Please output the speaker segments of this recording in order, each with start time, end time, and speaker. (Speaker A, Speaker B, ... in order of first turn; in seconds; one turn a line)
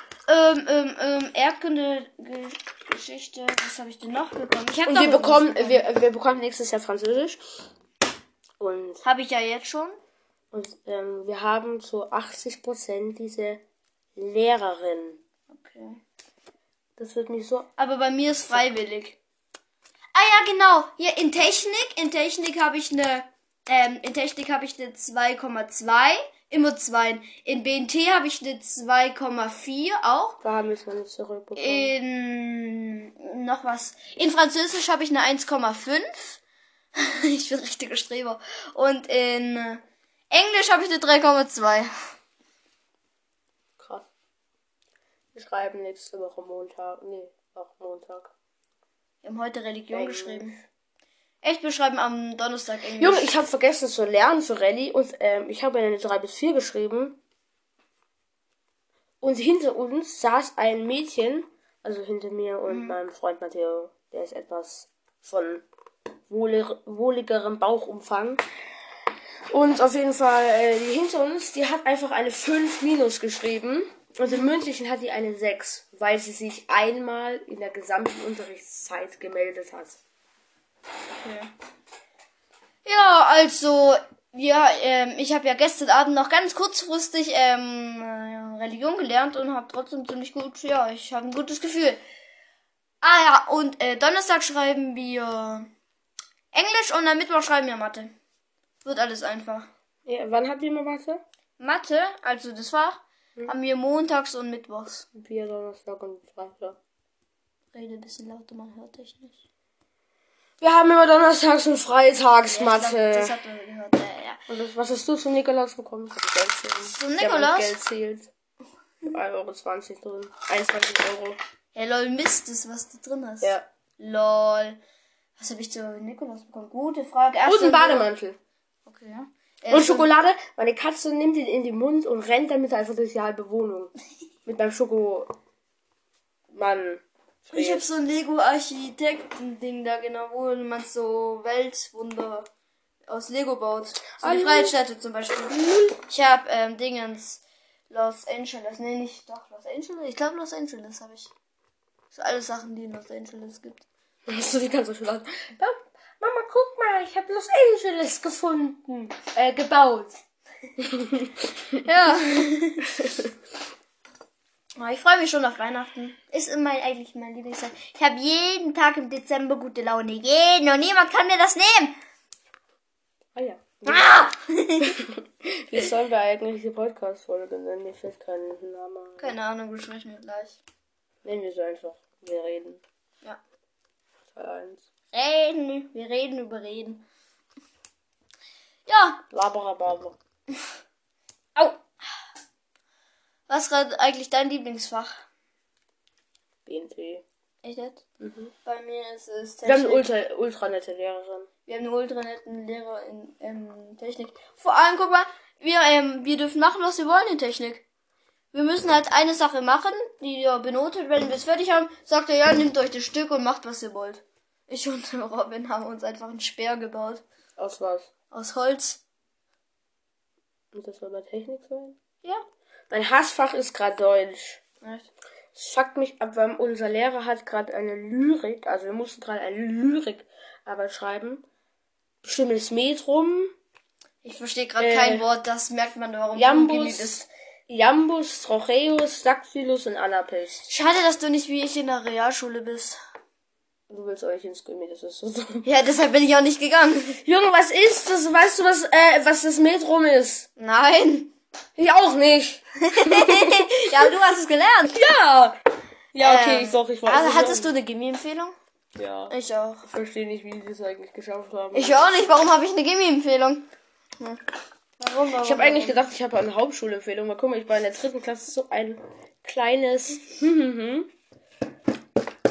Speaker A: 0.3-5.8
Speaker B: 4.9-7.4
Speaker B: 8.6-9.0
Speaker A: 9.0-10.0
Speaker B: 10.5-13.6
Speaker B: 14.2-15.2
Speaker A: 15.5-16.0
Speaker B: 17.0-17.7
Speaker A: 17.8-19.2
Speaker A: 20.1-30.4
Speaker B: 30.4-31.9
Speaker A: 31.6-36.4
Speaker A: 36.9-41.9
Speaker B: 43.8-44.1
Speaker B: 45.3-48.3
Speaker A: 49.2-50.6
Speaker B: 49.9-50.5
Speaker A: 51.4-53.3
Speaker B: 53.0-57.2
Speaker B: 59.2-65.6
Speaker A: 62.7-63.0
Speaker B: 66.3-68.4
Speaker B: 69.5-80.0
Speaker A: 81.2-81.5
Speaker A: 82.8-92.0
Speaker A: 93.0-95.7
Speaker A: 96.5-98.1
Speaker A: 98.8-99.7
Speaker B: 100.0-101.2
Speaker A: 101.6-105.0
Speaker B: 105.1-106.8
Speaker A: 107.7-109.4
Speaker B: 110.6-113.3
Speaker A: 112.5-114.4
Speaker B: 114.5-118.3
Speaker A: 116.9-117.8
Speaker B: 119.0-121.4
Speaker A: 121.7-124.8
Speaker A: 125.4-128.1
Speaker B: 127.4-128.4
Speaker A: 128.9-130.1
Speaker B: 129.7-133.9
Speaker B: 134.4-135.3
Speaker B: 136.5-137.8
Speaker A: 137.5-142.5
Speaker A: 143.1-151.3
Speaker B: 144.2-144.8
Speaker B: 145.5-146.0
Speaker A: 152.1-153.8
Speaker B: 154.3-160.2
Speaker B: 160.8-161.3
Speaker A: 161.7-162.9
Speaker B: 163.0-163.3
Speaker A: 164.8-171.9
Speaker B: 173.3-174.2
Speaker A: 173.8-175.0
Speaker B: 174.8-179.3
Speaker A: 179.2-180.6
Speaker B: 181.2-182.8
Speaker B: 184.3-184.8
Speaker A: 185.1-187.0
Speaker A: 188.9-189.2
Speaker B: 189.3-190.2
Speaker A: 191.6-191.8
Speaker A: 193.5-195.2
Speaker B: 196.7-197.2
Speaker A: 197.6-198.0
Speaker B: 198.2-198.5
Speaker A: 198.6-200.1
Speaker B: 199.6-201.5
Speaker A: 201.7-207.8
Speaker A: 208.5-217.2
Speaker B: 217.6-218.1
Speaker A: 218.3-219.0
Speaker B: 220.7-222.0
Speaker B: 222.9-224.6
Speaker A: 224.8-225.1
Speaker B: 225.5-231.4
Speaker B: 232.2-233.5
Speaker A: 234.2-237.2
Speaker B: 234.8-235.2
Speaker B: 236.3-240.7
Speaker A: 240.7-243.0
Speaker B: 243.9-245.7
Speaker A: 245.6-247.2
Speaker B: 247.2-250.5
Speaker A: 250.6-251.3
Speaker B: 251.8-253.8
Speaker A: 252.8-255.0
Speaker B: 254.9-255.6
Speaker B: 256.1-257.7
Speaker A: 256.2-258.5
Speaker B: 258.9-259.3
Speaker A: 259.3-259.9
Speaker B: 259.8-262.2
Speaker A: 261.7-263.7
Speaker A: 265.0-266.0
Speaker B: 265.4-271.1